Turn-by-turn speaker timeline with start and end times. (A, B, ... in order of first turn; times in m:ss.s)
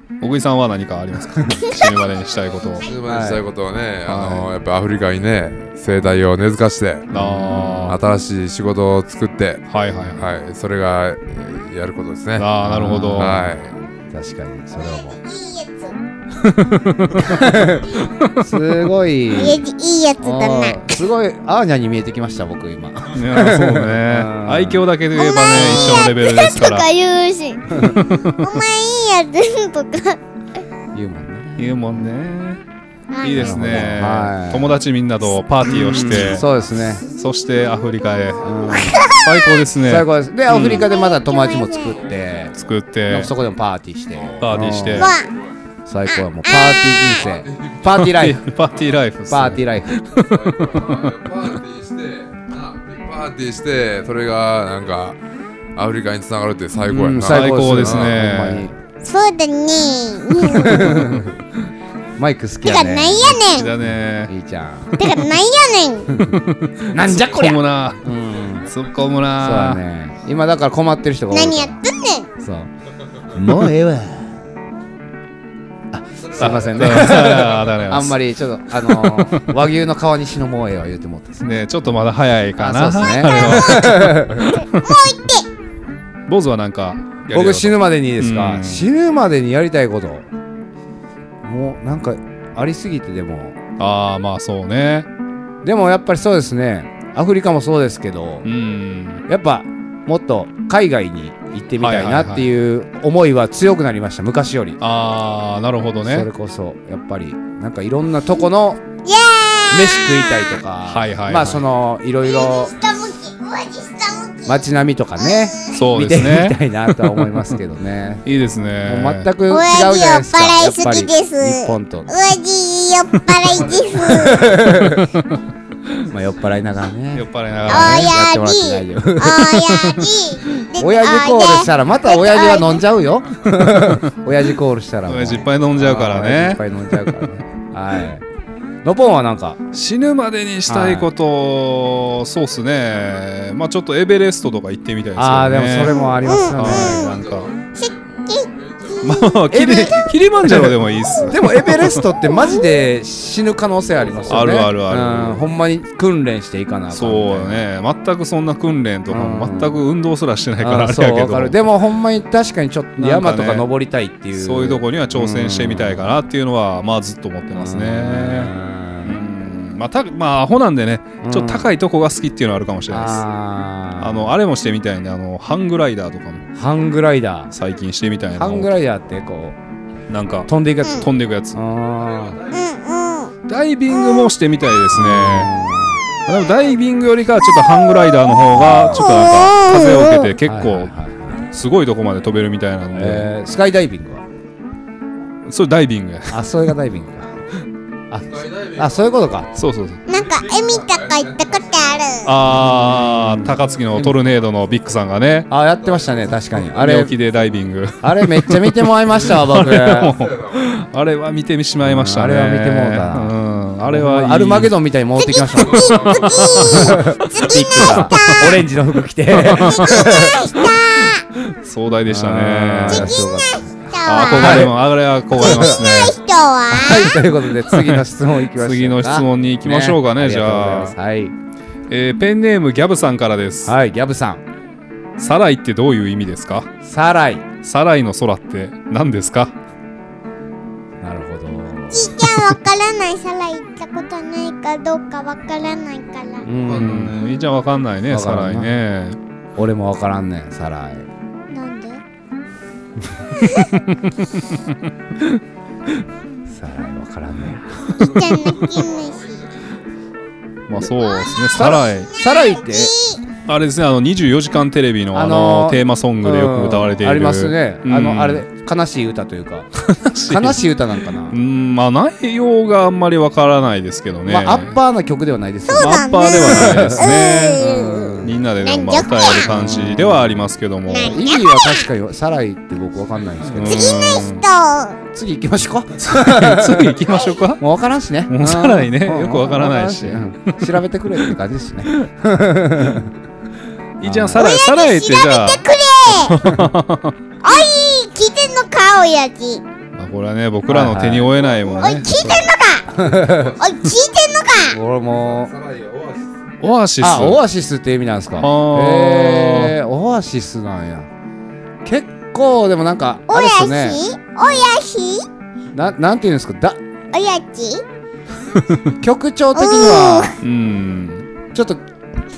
0:00.2-0:02.9 A
0:02.8-0:12.5 B
0:03.0-0:03.4 C
0:04.0-0:04.5 A
0:07.1-0:08.0 C
0:07.1-0:08.0 A
0:09.7-0:10.3 A
0:12.4-0:13.4 A
0:12.6-0:15.2 C
0:13.2-0:13.7 B
0:14.8-0:16.0 D
0:16.4-0:18.4 A
0:17.2-0:19.6 C
0:19.3-0:20.9 D
0:20.2-0:24.8 C
0:23.1-0:26.9 A
0:25.1-0:30.2 D
0:25.5-0:26.1 C
0:27.7-0:28.0 C
0:27.8-0:28.4 A
0:30.9-0:32.1 C
0:31.6-0:32.6 A
0:33.1-0:33.9 D
0:33.2-0:36.4 A
0:33.4-0:34.8 C
0:35.6-0:37.0 C
0:35.8-0:36.1 D
0:37.1-0:40.9 A
0:37.5-0:39.6 D
0:38.4-0:39.0 C
0:39.8-0:45.1 C
0:40.7-0:42.0 D
0:41.9-0:42.7 B
0:42.5-0:43.3 A
0:44.1-0:45.5 B
0:44.4-0:45.1 A
0:44.9-0:45.3 D
0:45.8-0:48.4 C
0:46.1-0:47.2 D
0:47.2-0:48.2 B
0:48.0-0:51.0 A
0:49.3-0:50.0 C
0:50.2-0:55.2 B
0:55.7-0:58.2 B
0:56.9-0:58.7 C
0:57.2-0:58.7 A
0:59.0-1:01.0 D
1:00.4-1:01.3 C
1:00.9-1:01.1 A
1:02.2-1:05.1 C
1:02.6-1:03.7 D
1:03.4-1:04.3 A
1:05.0-1:06.1 D
1:06.1-1:08.7 C
1:06.2-1:08.0 A
1:08.7-1:09.8 A
1:09.4-1:11.8 C
1:11.3-1:12.3 D
1:12.4-1:12.7 C
1:13.3-1:14.4 C
1:15.9-1:21.5 C
1:16.2-1:17.8 B
1:16.4-1:18.2 A
1:18.8-1:19.5 A
1:21.4-1:25.0 A
1:22.6-1:24.5 C
1:23.3-1:23.7 D
1:24.5-1:25.4 D
1:26.3-1:28.8 A
1:27.3-1:30.3 C
1:31.4-1:33.6 C
1:33.8-1:35.1 A
1:35.6-1:38.5 C
1:38.4-1:39.2 A
1:39.3-1:44.8 C
1:41.8-1:42.5 A
1:44.8-1:46.3 A
1:46.0-1:48.8 C
1:49.0-1:50.6 D
1:49.7-1:52.7 C
1:50.8-1:51.6 A
1:52.2-1:54.6 D
1:54.4-1:58.3 C
1:55.2-1:55.8 D
1:55.7-1:57.4 A
1:58.2-1:59.3 A
1:58.8-2:02.1 C
1:59.5-2:04.6 D
2:03.4-2:04.8 B
2:04.0-2:05.1 C
2:04.7-2:05.2 A
2:06.1-2:10.1 C
2:07.1-2:08.2 A
2:07.7-2:12.8 D
2:10.7-2:18.2 C
2:13.7-2:14.0 A
2:15.1-2:17.3 A
2:18.8-2:19.6 C
2:19.7-2:27.5 A
2:20.7-2:21.1 C
2:25.2-2:27.1 C
2:25.9-2:27.1 D
2:26.8-2:29.2 B
2:27.7-2:30.0 D
2:29.0-2:32.0 A
2:29.5-2:37.7 C
2:34.0-2:34.5 B
2:34.3-2:35.4 A
2:36.9-2:41.6 A
2:39.1-2:39.8 C
2:40.6-2:46.1 C
2:43.0-2:43.6 A
2:44.3-2:48.5 A
2:47.5-2:49.2 C
2:49.0-2:53.2 A
2:51.2-2:51.7 C
2:52.9-2:54.3 C
2:54.0-2:56.4 A
2:56.5-2:57.5 C
2:57.5-2:58.7 A
2:58.3-2:59.6 C
3:00.1-3:01.6 A
3:00.5-3:02.4 C
3:02.0-3:02.7 B
3:02.5-3:03.3 D
3:03.5-3:05.5 A
3:03.9-3:04.3 D
3:04.9-3:06.0 C
3:06.3-3:10.9 A
3:08.5-3:09.2 C
3:09.0-3:10.3 D
3:10.4-3:11.5 C
3:11.5-3:13.3 A
3:12.9-3:14.2 C
3:15.4-3:16.4 A
3:16.3-3:17.3 C
3:18.1-3:19.5 C
3:18.3-3:22.5 B
3:19.5-3:20.0 A
3:20.0-3:22.3 D
3:22.2-3:25.5 A
3:22.4-3:24.2 C
3:23.7-3:24.9 B
3:25.5-3:27.1 C
3:25.8-3:26.7 B
3:26.7-3:34.7 A
3:28.0-3:30.2 C
3:29.3-3:30.6 B
3:31.8-3:40.4 C
3:35.2-3:38.5 D
3:35.6-3:36.6 B
3:36.0-3:37.1 A
3:37.8-3:38.4 A
3:39.4-3:40.2 A
3:39.5-3:41.2 D
3:41.4-3:43.2 A
3:42.1-3:44.8 C
3:42.9-3:44.7 D
3:44.0-3:46.2 A
3:45.3-3:45.9 C
3:45.4-3:47.1 D
3:46.7-3:51.3 C
3:47.7-3:48.0 A
3:48.5-3:50.9 A
3:51.9-3:53.7 A
3:53.6-3:54.4 C
3:55.2-3:56.7 A
3:56.8-3:57.4 C
3:57.6-3:59.5 A
4:01.0-4:02.3 C
4:01.9-4:06.5 D
4:06.4-4:07.1 C
4:06.6-4:07.4 B
4:06.7-4:09.2 A
4:08.1-4:08.8 C
4:09.6-4:11.1 C
4:11.5-4:12.0 D
4:13.4-4:13.7 D
4:16.5-4:18.2 C
4:18.0-4:19.4 D
4:18.0-4:19.8 B
4:20.7-4:22.1 A
4:21.0-4:23.2 D
4:21.5-4:22.9 C
4:23.5-4:28.4 A
4:25.1-4:31.4 C
4:29.8-4:30.6 A
4:31.3-4:34.8 A
4:34.3-4:38.4 C
4:35.7-4:39.5 D
4:35.8-4:37.7 A
4:38.2-4:41.2 A
4:39.4-4:44.0 C
4:40.9-4:41.8 D
4:43.5-4:44.4 A
4:43.6-4:45.0 D
4:45.1-4:47.0 C
4:46.0-4:47.6 A
4:47.6-4:53.1 C
4:48.3-4:50.6 A
4:54.0-4:57.1 A
4:54.0-4:54.4 C
4:54.4-4:56.4 D
4:56.4-4:56.7 C
4:57.4-4:59.6 D
5:00.0-5:02.4 A
5:00.7-5:03.6 C
5:01.7-5:02.9 D
5:02.9-5:03.6 B
5:03.6-5:04.8 D
5:04.7-5:05.5 C
5:05.0-5:06.4 B
5:06.6-5:07.4 A
5:07.0-5:11.1 C
5:08.4-5:09.7 A
5:11.8-5:14.0 C
5:13.3-5:15.2 D
5:15.7-5:16.8 C
5:17.1-5:17.8 D
5:19.0-5:20.4 C
5:19.6-5:20.4 D
5:20.4-5:21.3 A
5:21.5-5:21.8 C